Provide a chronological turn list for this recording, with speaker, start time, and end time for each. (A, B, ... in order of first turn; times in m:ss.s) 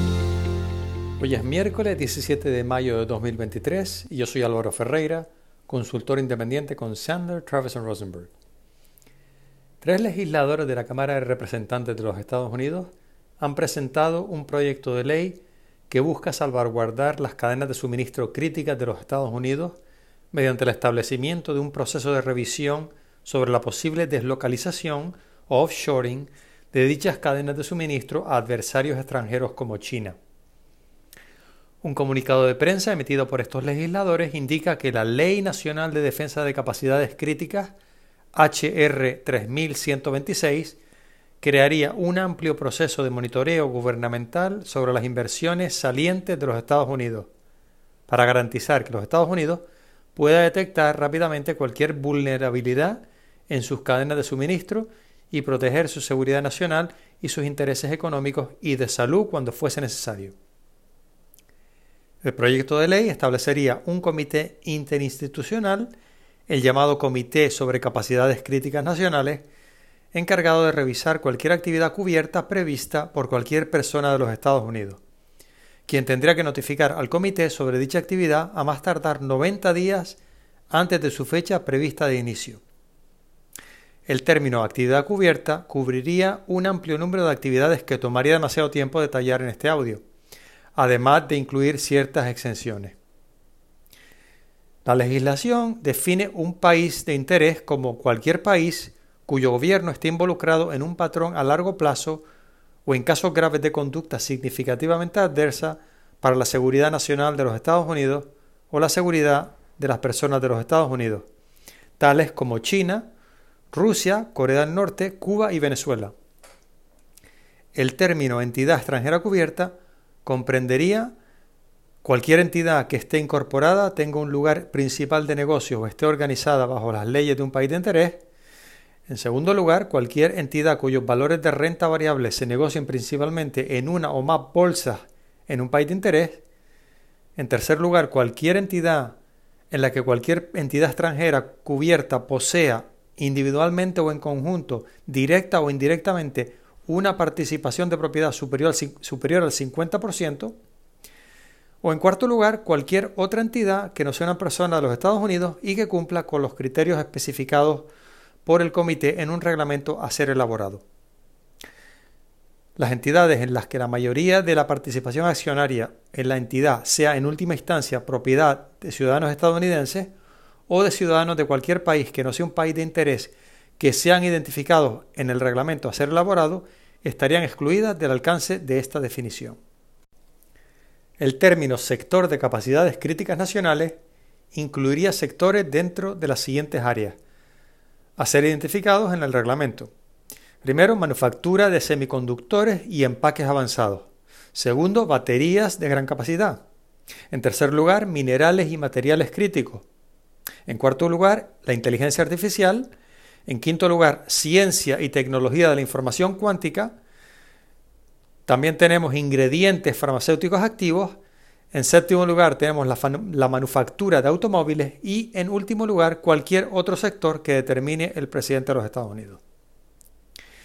0:01.2-0:08.3 A
0:09.8-0:19.8 A
0:20.3-0:30.2 A
0:31.8-0:37.7 A
0:38.3-0:40.8 A
0:41.4-0:47.3 A
0:48.1-1:00.3 A
1:02.2-1:05.9 A
1:06.5-1:09.4 A
1:10.1-1:15.0 A
1:15.9-1:20.2 A
1:20.7-1:22.6 A
1:24.1-1:30.0 A
1:30.8-1:33.0 A
1:34.8-1:42.2 A
1:42.8-1:51.2 A
1:52.0-1:53.1 A
1:53.7-1:56.1 A
1:57.7-1:59.7 A
2:00.2-2:01.1 A
2:02.0-2:08.2 A
2:09.1-2:16.4 A
2:17.4-2:19.2 A
2:19.7-2:30.6 A
2:31.8-2:37.9 A
2:38.4-2:40.8 A
2:42.8-2:50.1 A
2:50.7-2:59.6 A
3:01.2-3:04.0 A
3:04.5-3:07.2 A
3:08.2-3:09.9 A
3:10.6-3:16.6 A
3:17.3-3:19.8 A
3:20.6-3:22.9 A
3:23.4-3:26.9 A
3:28.5-3:31.2 A
3:31.7-3:39.4 A